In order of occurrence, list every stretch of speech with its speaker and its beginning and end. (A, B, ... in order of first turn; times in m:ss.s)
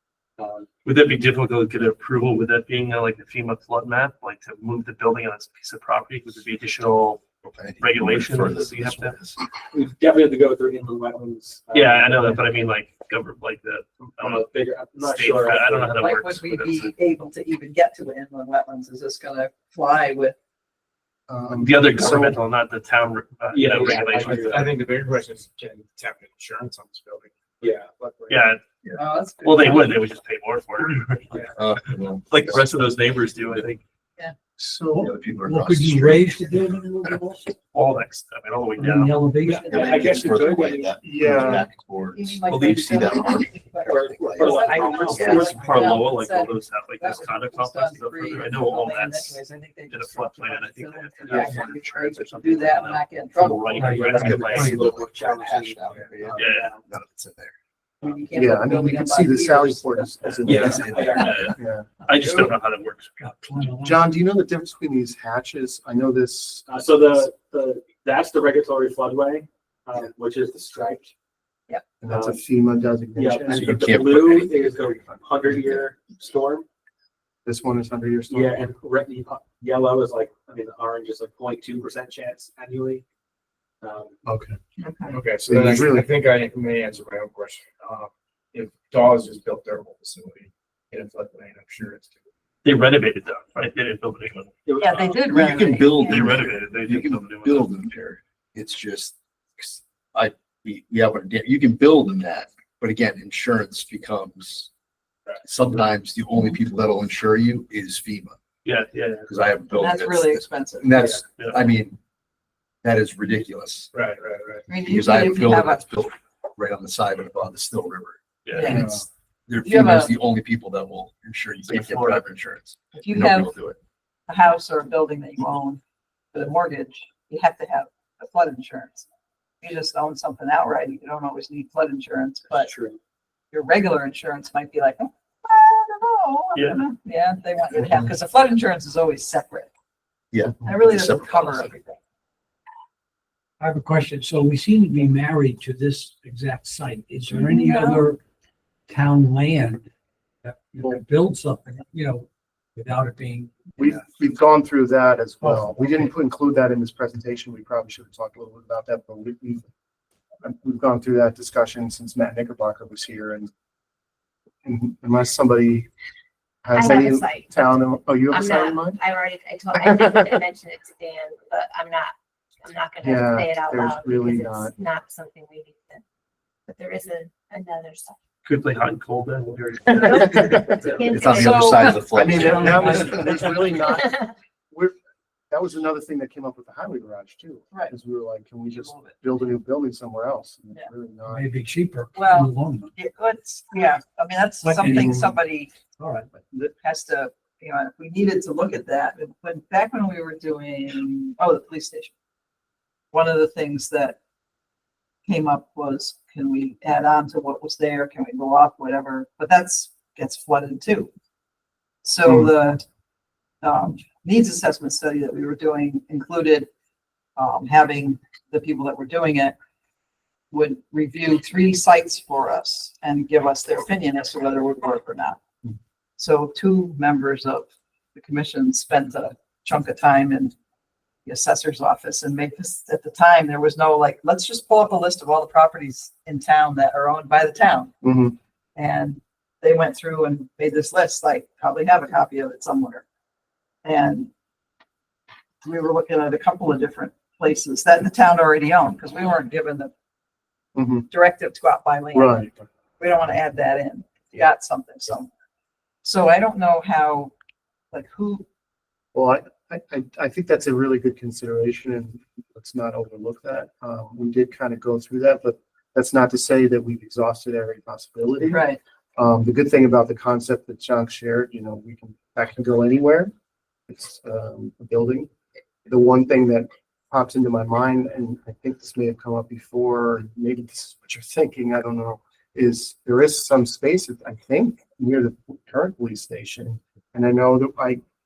0:00.4-0:00.7 A
0:00.8-0:07.2 B
0:07.4-0:09.5 C
0:07.8-0:09.2 B
0:09.7-0:12.4 A
0:11.7-0:16.9 B
0:14.2-0:15.9 A
0:16.0-0:20.4 D
0:21.3-0:22.4 E
0:21.6-0:24.7 B
0:23.5-0:24.6 A
0:23.6-0:28.5 F
0:27.6-0:27.9 A
0:28.3-0:28.6 B
0:28.9-0:30.0 D
0:29.4-0:31.5 B
0:31.5-0:32.7 C
0:32.3-0:33.8 B
0:34.6-0:35.1 E
0:34.9-0:37.5 G
0:35.0-0:36.3 C
0:37.7-0:39.1 B
0:38.8-0:40.2 G
0:39.4-0:40.9 A
0:39.6-0:40.1 D
0:39.7-0:44.6 C
0:41.0-0:41.7 E
0:42.1-0:53.9 D
0:42.5-0:42.9 B
0:43.8-0:45.2 A
0:44.6-0:45.9 G
0:45.0-0:54.8 B
0:45.1-0:45.4 C
0:51.3-0:51.6 A
0:53.7-0:56.8 A
0:53.8-0:54.9 G
0:54.1-0:57.5 C
0:56.4-0:56.7 B
0:58.0-1:00.1 D
0:58.3-1:01.9 E
1:00.3-1:01.3 A
1:00.7-1:01.5 C
1:01.1-1:03.2 B
1:03.2-1:04.1 G
1:03.8-1:06.7 E
1:06.7-1:11.1 A
1:12.0-1:14.0 E
1:12.1-1:12.4 A
1:13.2-1:16.6 A
1:13.5-1:14.6 C
1:17.4-1:18.7 E
1:18.3-1:23.0 A
1:23.8-1:24.2 A
1:24.2-1:24.6 E
1:24.8-1:25.2 D
1:25.1-1:32.2 F
1:25.4-1:26.1 E
1:32.6-1:34.7 B
1:34.7-1:35.2 A
1:34.8-1:36.2 D
1:35.3-1:44.7 C
1:36.0-1:37.7 B
1:45.4-1:48.4 C
1:48.6-1:49.3 B
1:49.3-1:52.0 C
1:49.7-1:51.0 D
1:51.4-1:51.6 B
1:52.8-1:53.9 C
1:53.9-1:54.6 A
1:54.7-1:55.8 D
1:54.7-1:58.2 C
1:58.4-1:58.8 B
1:58.5-1:59.0 D
1:58.6-1:59.0 E
1:59.5-2:03.8 C
1:59.6-2:00.1 D
2:01.7-2:02.2 B
2:02.9-2:03.5 D
2:04.3-2:05.8 D
2:06.3-2:09.1 D
2:09.6-2:12.7 D
2:12.6-2:13.0 A
2:13.5-2:19.7 D
2:16.5-2:16.8 B
2:20.3-2:21.7 C
2:20.6-2:22.0 D
2:23.6-2:28.2 G
2:27.3-2:28.1 D
2:28.9-2:29.9 G
2:30.4-2:33.9 G
2:33.8-2:39.6 E
2:35.4-2:36.1 G
2:40.4-2:43.5 E
2:44.6-2:45.9 E
2:46.6-2:49.0 E
2:46.7-2:56.0 H
2:53.0-2:54.7 E
2:56.7-2:58.2 H
2:58.4-3:00.8 B
3:00.0-3:01.7 H
3:01.0-3:03.1 C
3:01.4-3:02.0 D
3:01.6-3:03.7 G
3:02.1-3:04.9 E
3:03.9-3:04.3 H
3:05.5-3:11.5 E
3:08.7-3:09.2 D
3:11.3-3:12.9 G
3:12.1-3:15.8 D
3:14.6-3:15.3 G
3:14.8-3:15.3 E
3:16.0-3:16.3 G
3:16.4-3:22.1 D
3:23.1-3:24.2 D
3:25.2-3:31.1 D
3:32.0-3:32.8 D
3:33.6-3:36.7 D
3:37.4-3:39.6 D
3:40.5-3:45.4 D
3:46.2-3:50.5 D
3:51.2-3:57.9 D
3:58.0-3:58.4 E
3:58.8-4:03.0 D
4:03.8-4:04.3 D
4:05.6-4:09.9 D
4:10.7-4:11.1 E
4:11.1-4:15.3 D
4:12.1-4:12.6 E
4:16.0-4:17.3 D
4:17.9-4:18.4 D
4:19.1-4:33.3 E
4:28.4-4:28.8 D
4:33.9-4:35.3 E
4:35.9-4:48.0 E